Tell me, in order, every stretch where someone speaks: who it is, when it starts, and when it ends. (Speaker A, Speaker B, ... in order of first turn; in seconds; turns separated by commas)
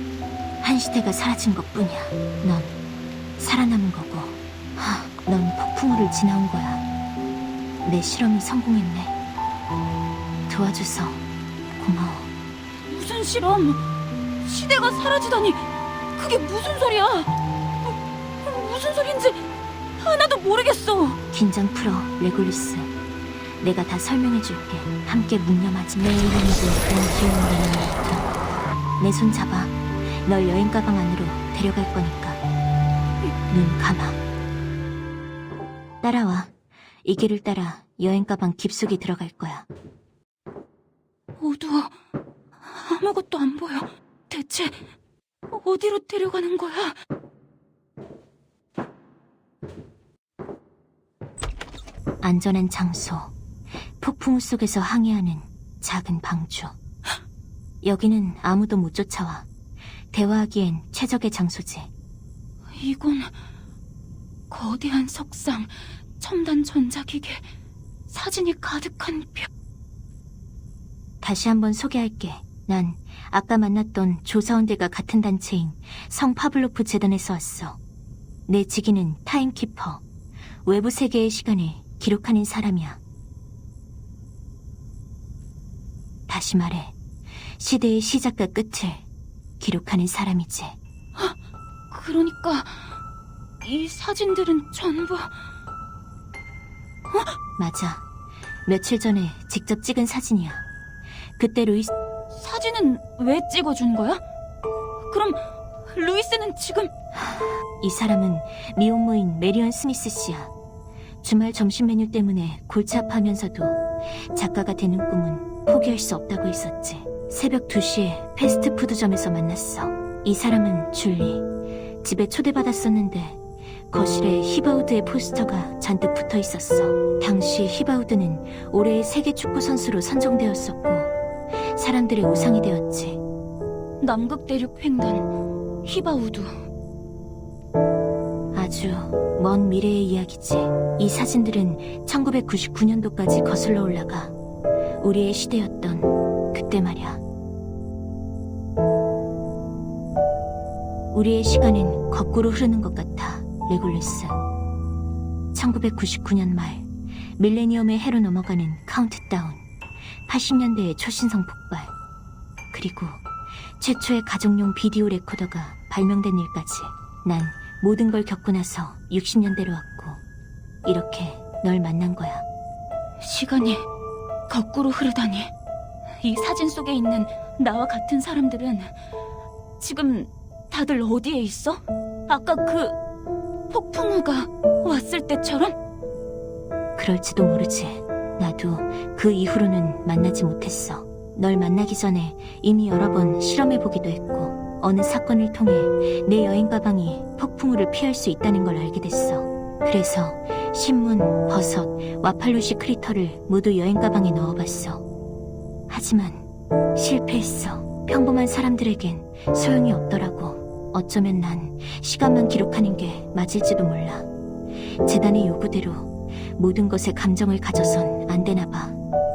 Speaker A: 0.6-2.7, Speaker A: 3.4-6.8, Speaker A: 7.8-9.1, Speaker A: 10.5-11.2, Speaker A: 11.8-12.3, Speaker B: 12.9-13.8, Speaker B: 14.4-15.6, Speaker B: 16.1-19.5, Speaker B: 20.0-21.2, Speaker A: 21.3-22.9, Speaker A: 23.6-28.3, Speaker A: 29.0-32.4, Speaker A: 33.5-34.2, Speaker A: 36.0-36.5, Speaker A: 37.0-39.7, Speaker B: 41.4-42.0, Speaker B: 42.6-44.8, Speaker B: 45.5-47.0, Speaker A: 52.2-53.3, Speaker A: 54.0-56.8, Speaker A: 57.8-59.5, Speaker A: 60.1-61.9, Speaker B: 62.8-63.3, Speaker B: 64.5-67.5, Speaker B: 68.1-69.5, Speaker A: 71.2-77.8, Speaker A: 78.5-80.0, Speaker A: 80.7-83.0, Speaker A: 86.3-87.0, Speaker A: 87.6-89.0, Speaker A: 89.6-90.8, Speaker B: 91.9-92.9, Speaker B: 93.6-95.3, Speaker B: 97.1-97.4, Speaker A: 97.6-98.0, Speaker A: 98.7-100.6, Speaker A: 101.4-101.9, Speaker B: 102.3-104.2, Speaker B: 105.1-106.9, Speaker A: 107.1-110.5, Speaker A: 111.2-113.8, Speaker A: 114.3-121.5, Speaker A: 122.0-123.4, Speaker A: 123.9-131.1, Speaker A: 131.6-133.2, Speaker B: 134.0-135.3, Speaker B: 135.8-136.5, Speaker A: 138.5-144.3, Speaker A: 145.0-147.2, Speaker A: 151.1-154.4, Speaker A: 155.5-156.9, Speaker A: 157.4-159.6, Speaker A: 160.3-161.9, Speaker A: 162.7-163.2, Speaker A: 163.8-170.2, Speaker A: 170.8-172.4, Speaker B: 173.2-173.8, Speaker B: 174.5-175.5, Speaker B: 176.2-178.9, Speaker B: 179.8-183.0, Speaker B: 183.7-185.8, Speaker A: 187.0-205.0, Speaker A: 205.9-214.3, Speaker A: 215.1-219.0